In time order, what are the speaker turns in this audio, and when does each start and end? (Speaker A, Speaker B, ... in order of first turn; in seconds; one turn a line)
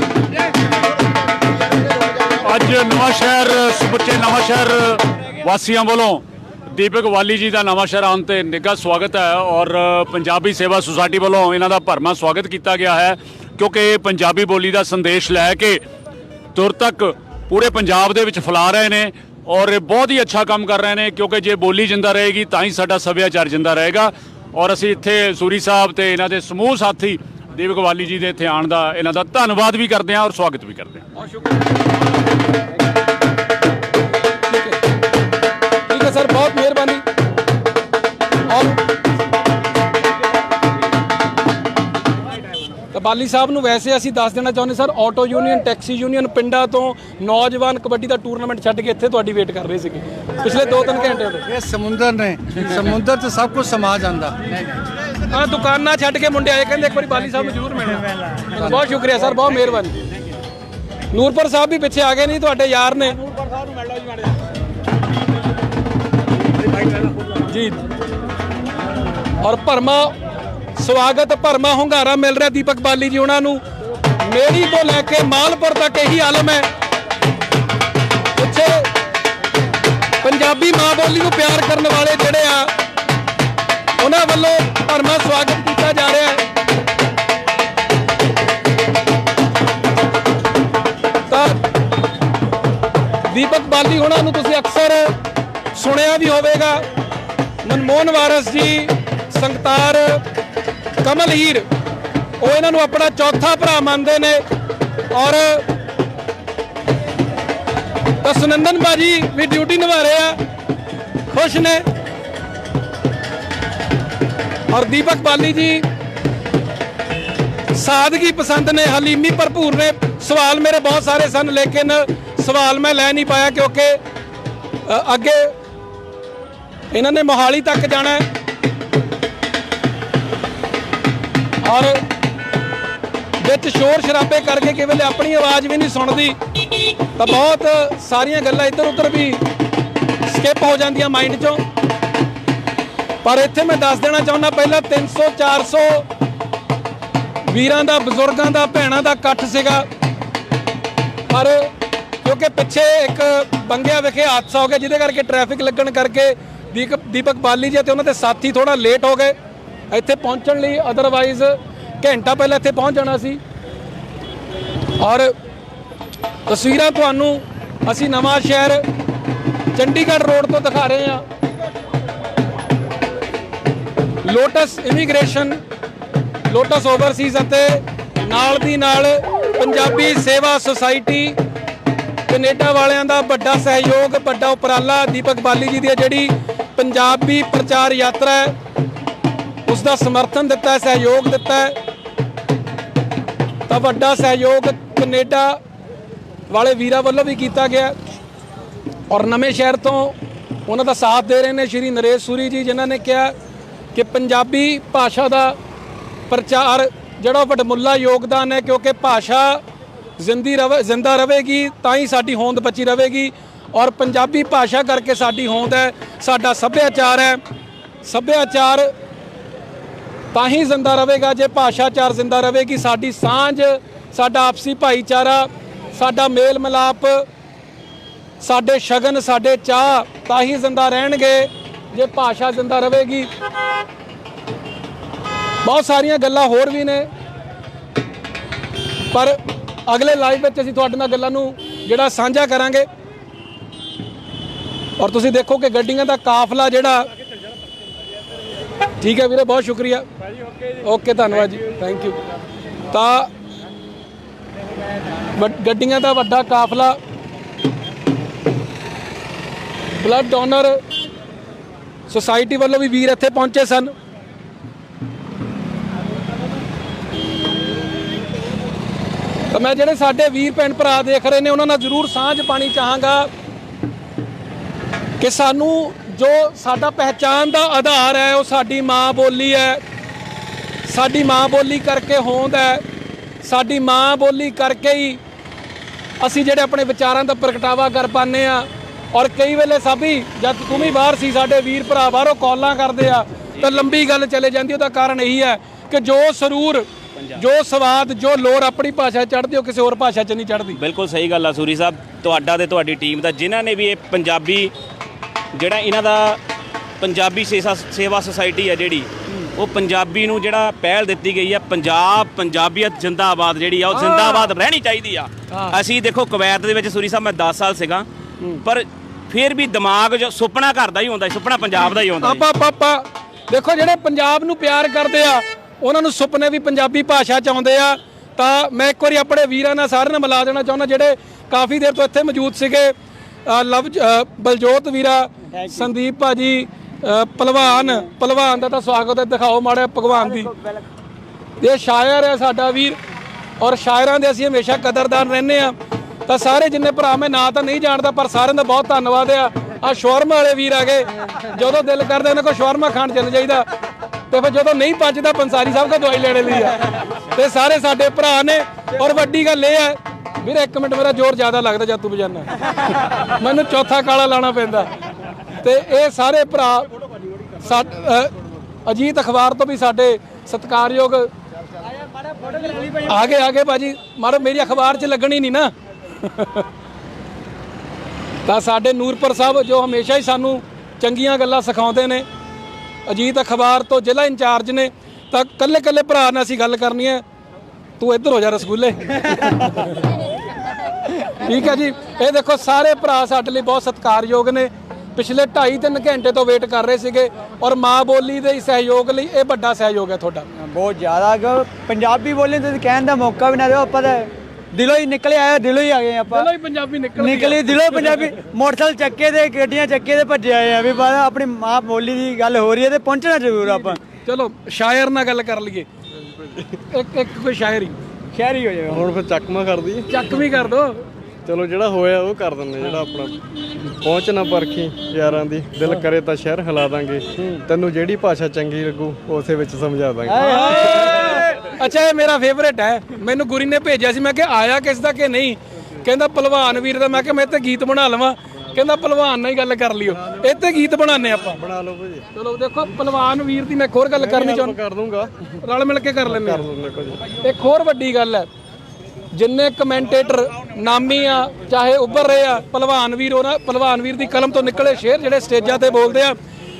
Speaker A: 2.4-15.8
Speaker A: 16.5-31.0
Speaker B: 34.5-34.8
Speaker B: 35.9-37.0
Speaker B: 38.5-38.8
Speaker B: 42.9-51.5
Speaker C: 51.5-54.4
Speaker B: 55.3-60.0
Speaker B: 61.1-63.2
Speaker B: 67.4-67.8
Speaker B: 69.4-70.1
Speaker B: 70.8-73.6
Speaker B: 74.2-76.7
Speaker B: 78.3-78.9
Speaker B: 80.2-82.7
Speaker B: 84.0-86.4
Speaker B: 91.3-91.6
Speaker B: 93.3-95.1
Speaker B: 95.7-96.8
Speaker B: 97.6-100.2
Speaker B: 101.0-101.7
Speaker B: 102.4-104.4
Speaker B: 105.1-105.6
Speaker B: 108.2-110.4
Speaker B: 111.3-111.8
Speaker B: 114.7-115.8
Speaker B: 117.7-124.0
Speaker B: 124.8-125.5
Speaker B: 126.9-128.2
Speaker B: 131.6-132.0
Speaker B: 133.4-136.4
Speaker B: 137.2-139.4
Speaker B: 140.2-141.6
Speaker B: 143.2-146.1
Speaker B: 147.5-149.9
Speaker B: 151.3-151.7
Speaker B: 152.2-159.3
Speaker B: 159.9-163.4
Speaker B: 165.0-165.3
Speaker B: 166.5-168.8
Speaker B: 169.7-171.2
Speaker B: 174.2-175.6
Speaker B: 176.5-181.4
Speaker B: 182.3-188.5
Speaker B: 189.7-191.8
Speaker B: 193.7-195.6
Speaker B: 196.5-197.9
Speaker B: 199.1-200.1
Speaker B: 200.7-203.3
Speaker B: 203.9-205.6
Speaker B: 206.3-209.6
Speaker B: 210.2-217.4
Speaker B: 218.0-218.9
Speaker B: 220.3-227.2
Speaker B: 228.4-233.3
Speaker B: 235.6-237.1
Speaker B: 239.1-239.4
Speaker B: 239.9-242.8
Speaker B: 245.0-247.1
Speaker B: 249.0-250.1
Speaker B: 250.8-252.2
Speaker B: 252.9-253.3
Speaker B: 255.3-257.0
Speaker B: 259.9-260.8
Speaker B: 262.1-263.9
Speaker B: 269.5-273.3
Speaker B: 275.2-279.8
Speaker B: 280.9-282.8
Speaker B: 283.4-285.2
Speaker B: 286.2-300.8
Speaker D: 300.7-304.7
Speaker D: 305.5-306.4
Speaker D: 307.0-318.1
Speaker B: 313.9-314.5
Speaker D: 318.6-322.4
Speaker B: 322.2-332.9
Speaker B: 333.5-340.5
Speaker E: 335.6-335.9
Speaker E: 340.1-340.8
Speaker B: 341.6-343.0
Speaker B: 343.6-345.7
Speaker B: 346.3-353.6
Speaker B: 354.3-362.5
Speaker B: 363.3-364.9
Speaker B: 365.6-366.9
Speaker B: 367.6-368.3
Speaker B: 368.9-371.3
Speaker E: 372.4-373.0
Speaker B: 373.1-375.7
Speaker B: 376.2-376.6
Speaker B: 378.4-382.2
Speaker B: 383.1-387.2
Speaker B: 388.0-389.9
Speaker B: 391.4-400.4
Speaker E: 400.6-406.5
Speaker B: 406.3-408.2
Speaker E: 407.2-414.0
Speaker B: 413.7-415.9
Speaker F: 416.2-416.7
Speaker B: 416.9-417.9
Speaker E: 418.3-419.1
Speaker F: 418.9-420.3
Speaker B: 420.1-421.0
Speaker F: 421.4-431.2
Speaker E: 430.3-431.4
Speaker B: 430.3-441.6
Speaker F: 440.1-440.5
Speaker F: 441.5-442.2
Speaker B: 442.3-444.8
Speaker F: 444.2-445.3
Speaker B: 445.6-446.6
Speaker F: 446.2-447.2
Speaker B: 447.4-448.5
Speaker B: 449.3-456.4